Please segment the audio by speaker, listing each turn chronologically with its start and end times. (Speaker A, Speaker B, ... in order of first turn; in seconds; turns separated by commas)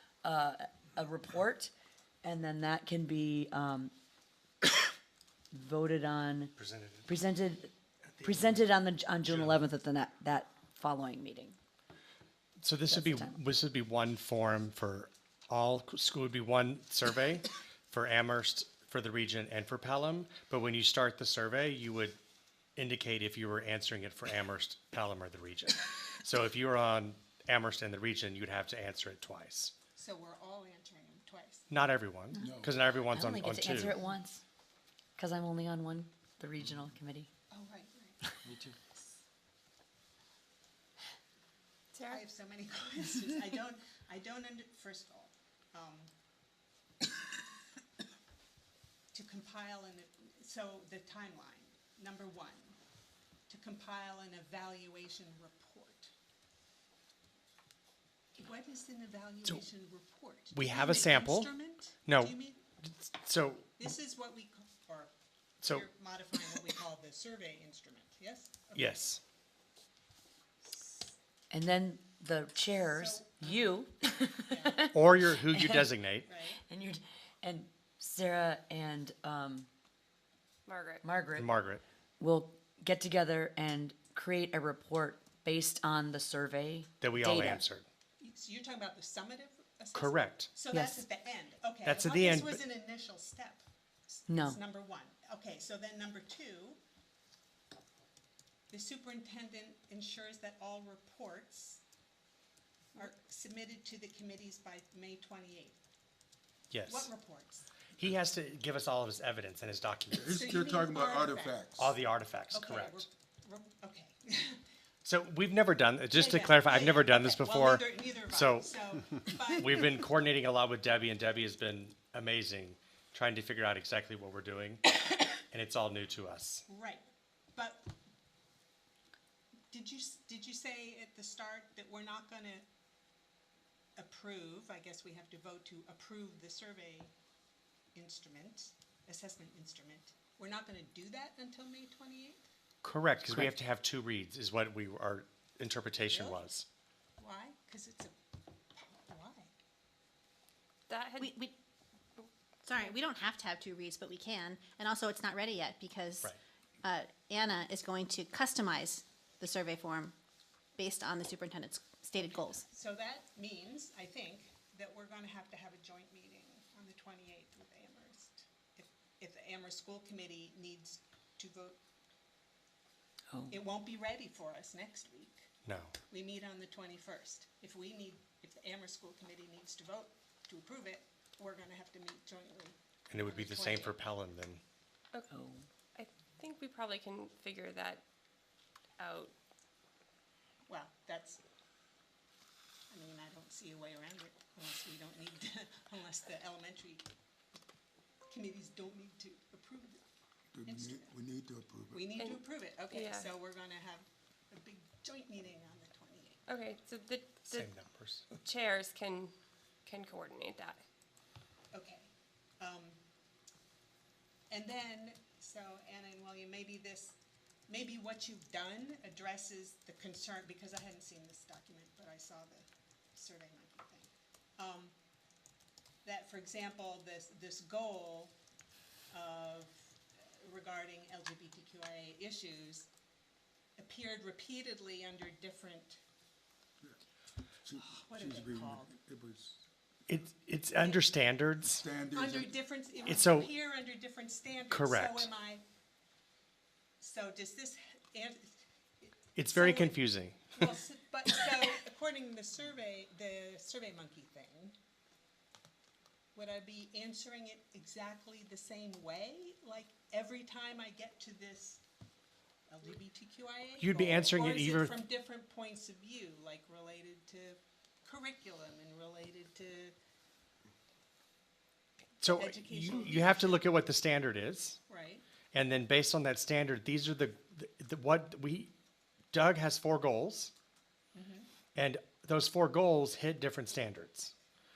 Speaker A: 0.2-1.7, Speaker A: 2.2-3.9, Speaker A: 4.6-4.9, Speaker A: 5.5-11.6, Speaker B: 6.5-7.1, Speaker B: 8.1-8.6, Speaker B: 9.2-9.6, Speaker B: 12.6-22.2, Speaker A: 12.9-13.4, Speaker B: 22.8-29.7, Speaker C: 29.9-31.7, Speaker B: 31.7-33.9, Speaker D: 32.4-32.8, Speaker A: 33.1-34.4, Speaker A: 35.2-37.3, Speaker C: 37.5-39.2, Speaker E: 41.9-42.2, Speaker C: 42.0-46.1, Speaker C: 49.1-52.8, Speaker C: 53.5-56.1, Speaker C: 58.4-62.6, Speaker B: 60.5-61.5, Speaker B: 62.0-63.7, Speaker C: 63.8-69.0, Speaker B: 65.6-65.9, Speaker B: 68.7-69.2, Speaker A: 71.5-75.9, Speaker C: 72.7-73.8, Speaker C: 74.5-74.9, Speaker B: 74.9-76.3, Speaker C: 76.2-76.6, Speaker A: 76.5-79.7, Speaker E: 80.7-81.0, Speaker A: 81.0-81.5, Speaker B: 81.3-81.8, Speaker A: 82.2-87.6, Speaker B: 87.0-87.9, Speaker C: 88.2-96.8, Speaker B: 89.9-90.5, Speaker A: 90.7-91.0, Speaker B: 91.8-92.6, Speaker A: 94.3-94.6, Speaker C: 98.7-101.8, Speaker C: 102.9-105.8, Speaker B: 106.7-107.1, Speaker C: 106.9-107.7, Speaker B: 108.0-110.3, Speaker D: 110.1-111.9, Speaker C: 110.3-111.6, Speaker B: 111.8-113.0, Speaker C: 112.5-114.6, Speaker B: 115.0-118.9, Speaker C: 116.1-120.1, Speaker B: 119.5-126.6, Speaker C: 126.7-127.9, Speaker C: 129.7-132.7, Speaker C: 134.0-137.1, Speaker C: 137.9-142.4, Speaker B: 142.8-146.7, Speaker C: 146.1-146.5, Speaker C: 147.2-148.1, Speaker C: 148.7-149.5, Speaker E: 150.9-151.3, Speaker F: 152.7-156.3, Speaker F: 156.8-160.1, Speaker F: 160.8-162.6, Speaker C: 162.2-171.8, Speaker A: 173.3-173.6, Speaker C: 173.5-175.5, Speaker B: 175.6-176.0, Speaker C: 176.1-184.0, Speaker B: 183.1-184.6, Speaker A: 185.3-185.6, Speaker E: 185.9-188.0, Speaker E: 189.0-189.3, Speaker C: 190.7-191.4, Speaker C: 192.9-197.1, Speaker C: 198.3-200.0, Speaker D: 200.5-202.2, Speaker C: 200.7-201.1, Speaker C: 201.9-206.4, Speaker E: 202.2-203.3, Speaker E: 206.5-207.7, Speaker B: 207.4-208.3, Speaker E: 208.4-209.3, Speaker E: 209.8-210.8, Speaker C: 211.7-213.0, Speaker C: 214.5-217.2, Speaker C: 217.7-224.9, Speaker C: 226.0-228.3, Speaker C: 229.1-232.9, Speaker C: 233.8-236.0, Speaker D: 237.6-239.6, Speaker C: 237.8-239.0, Speaker B: 240.1-241.8, Speaker C: 240.8-241.1, Speaker D: 241.6-242.6, Speaker C: 242.1-245.6, Speaker B: 243.1-243.5, Speaker B: 244.7-245.3, Speaker C: 247.0-250.0, Speaker B: 249.3-250.6, Speaker C: 250.5-254.7, Speaker C: 256.3-261.8, Speaker C: 262.7-269.9, Speaker B: 263.8-265.0, Speaker C: 272.2-273.7, Speaker B: 272.2-274.8, Speaker C: 274.9-275.2, Speaker B: 275.5-278.7, Speaker B: 279.3-280.5, Speaker C: 281.1-281.5, Speaker B: 281.7-284.3